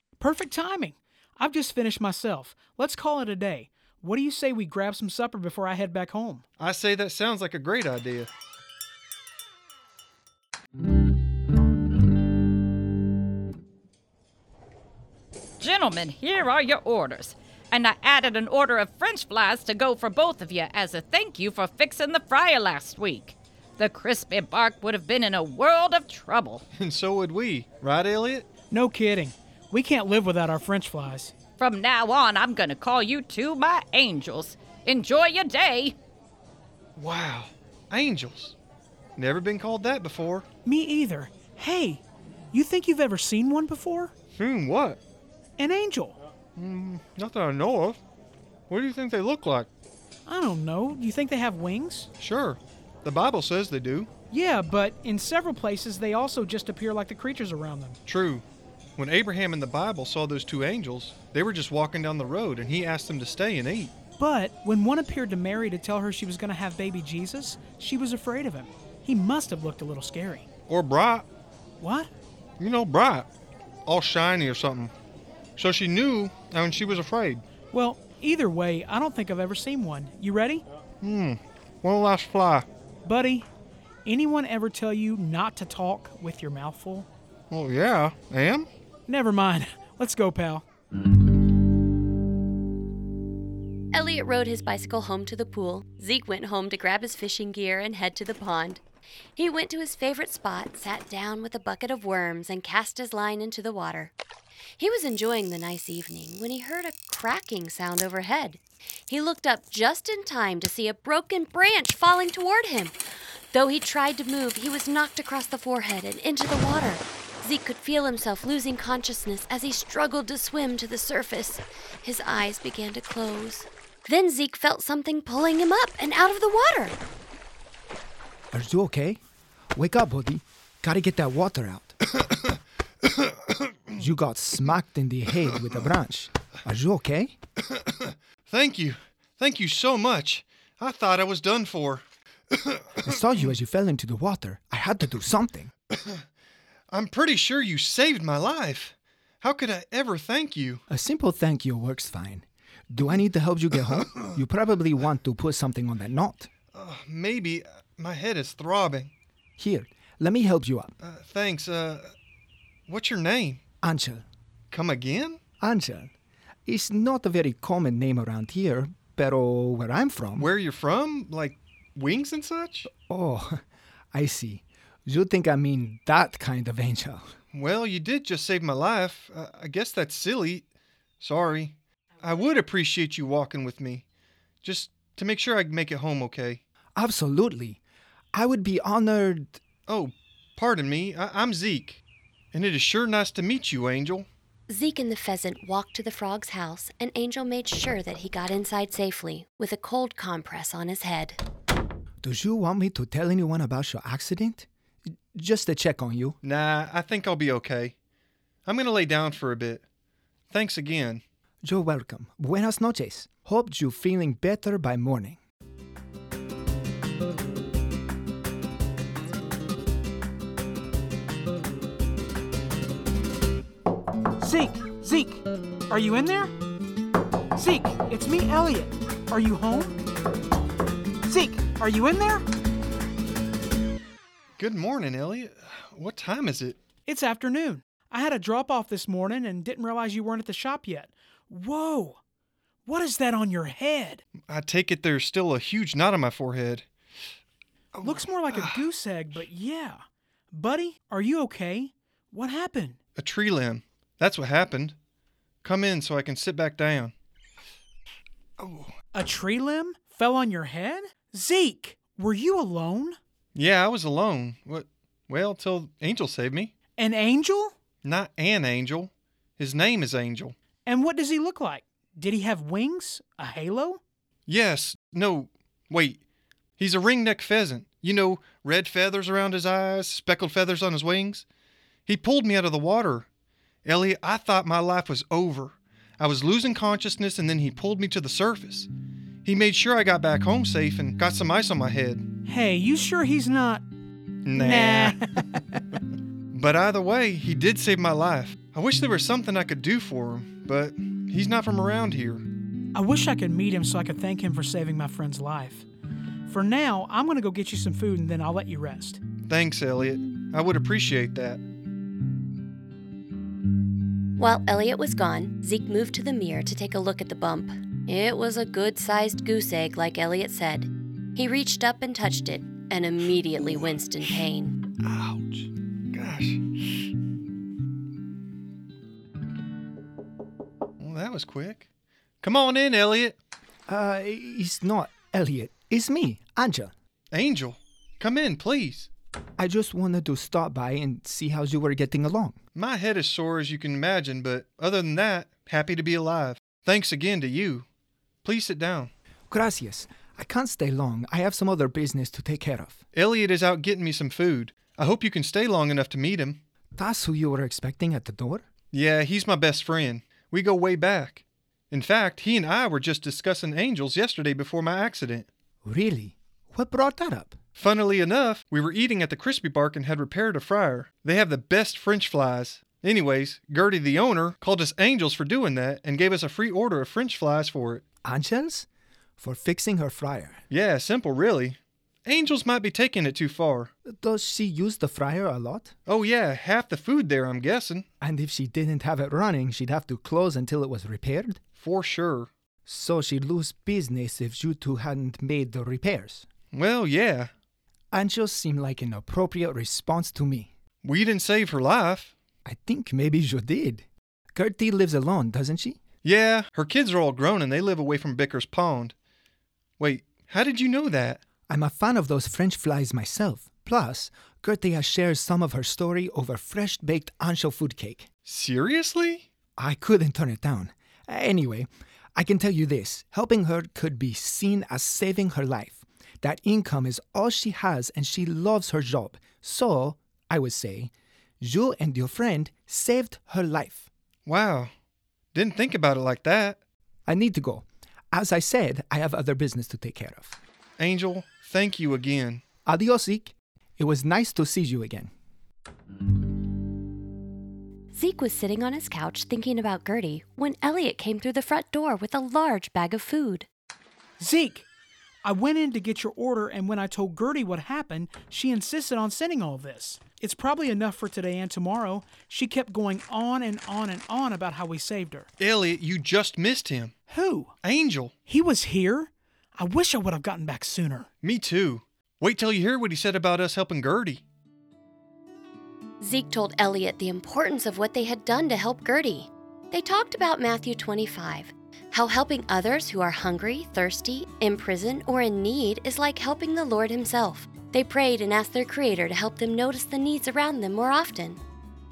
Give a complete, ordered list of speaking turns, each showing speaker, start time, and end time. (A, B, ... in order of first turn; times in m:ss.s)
0:00.2-0:06.4 A
0:06.6-0:08.3 B
0:15.6-0:26.6 C
0:26.8-0:28.5 B
0:28.7-0:31.3 A
0:31.6-0:36.0 C
0:37.0-0:38.5 B
0:39.2-0:40.4 B
0:40.6-0:42.0 A
0:42.5-0:44.1 A
0:44.4-0:45.0 B
0:45.6-0:46.2 A
0:46.6-0:48.0 B
0:48.7-0:49.7 B
0:50.2-0:52.1 A
0:52.2-0:54.1 B
0:54.3-0:58.0 A
0:58.0-0:58.4 B
0:59.0-1:03.9 B
1:04.2-1:10.4 A
1:10.7-1:11.3 B
1:11.8-1:12.1 A
1:12.6-1:13.3 B
1:13.8-1:14.9 B
1:15.6-1:17.4 B
1:17.7-1:20.6 A
1:21.0-1:22.6 B
1:23.0-1:23.4 A
1:24.0-1:27.1 A
1:27.5-1:28.7 B
1:29.1-1:30.6 A
1:33.9-1:38.8 D
1:39.4-1:44.1 D
1:44.8-1:52.9 D
1:53.5-2:07.0 D
2:08.5-2:09.2 E
2:09.7-2:11.9 E
2:14.0-2:17.3 E
2:18.0-2:23.0 B
2:23.0-2:25.7 E
2:25.9-2:26.2 B
2:26.9-2:30.8 B
2:30.9-2:36.5 E
2:36.7-2:39.1 B
2:39.6-2:40.9 E
2:41.0-2:42.1 B
2:42.9-2:43.6 B
2:43.8-2:44.2 E
2:44.7-2:45.4 B
2:45.6-2:46.1 E
2:46.6-2:50.5 E
2:50.4-2:52.9 B
2:52.9-2:53.6 E
2:54.1-2:57.3 E
2:57.5-3:00.7 B
3:01.2-3:04.0 B
3:04.6-3:06.6 B
3:07.0-3:07.8 E
3:08.3-3:09.6 E
3:09.9-3:12.0 B
3:12.5-3:14.3 B
3:14.7-3:21.4 D
3:22.2-3:24.7 E
3:25.3-3:26.4 E
3:26.4-3:27.9 B
3:28.6-3:29.8 B
3:30.5-3:31.2 B
3:31.6-3:35.4 E
3:44.4-3:46.5 A
3:47.6-3:50.0 A
3:51.2-3:52.4 A
3:54.6-3:56.8 B
3:57.1-4:02.2 A
4:02.9-4:04.2 A
4:04.4-4:06.8 B
4:07.9-4:08.9 B
4:08.0-4:13.0 A
4:13.2-4:15.0 B
4:15.6-4:17.1 B
4:18.6-4:18.9 B
4:19.1-4:23.2 A
4:23.5-4:26.7 B
4:27.0-4:27.7 A
4:28.0-4:30.6 B
4:30.8-4:34.0 A
4:34.5-4:36.2 B
4:36.8-4:41.4 B
4:42.0-4:43.3 B
4:43.8-4:48.9 B
4:49.4-4:52.2 B
4:52.4-4:53.8 A
4:54.4-4:55.2 B
4:54.5-4:55.4 A
4:56.5-5:02.5 B
5:02.9-5:05.8 A
5:06.5-5:09.2 A
5:09.5-5:11.6 B
5:14.4-5:24.8 D
5:25.0-5:26.6 B
5:31.0-5:31.8 B
5:32.4-5:33.4 B
5:33.9-5:36.9 E
5:37.3-5:39.1 B
5:39.6-5:42.6 E
5:42.7-5:47.8 B
5:48.4-5:49.1 B
5:49.5-5:53.0 E
5:53.1-5:56.6 B
5:57.0-5:58.6 E
5:58.9-6:05.5 B
6:05.8-6:07.6 E
6:07.8-6:18.0 B
6:18.2-6:18.9 E
6:19.4-6:20.6 E
6:20.7-6:23.9 B
6:24.0-6:25.9 E
6:26.0-6:28.0 B
6:28.2-6:31.6 E
6:31.8-6:32.5 B
6:32.8-6:36.4 E
6:36.7-6:37.5 B
6:38.1-6:40.7 E
6:41.0-6:42.3 B
6:42.6-6:46.0 E
6:46.2-6:49.1 B
6:50.0-6:51.4 B
6:51.7-6:58.3 E
6:58.4-6:59.5 B
6:59.8-7:14.1 E
7:14.4-7:14.9 B
7:15.5-7:16.8 B
7:17.3-7:20.6 E
7:21.0-7:22.6 B
7:22.8-7:25.3 E
7:28.1-7:33.7 D
7:34.4-7:34.8 A
7:35.4-7:45.5 A
7:45.6-7:47.1 B
7:47.3-7:47.7 A
7:47.8-7:48.3 B
7:48.5-7:51.3 A
7:51.4-7:54.4 B
7:56.2-8:11.6 D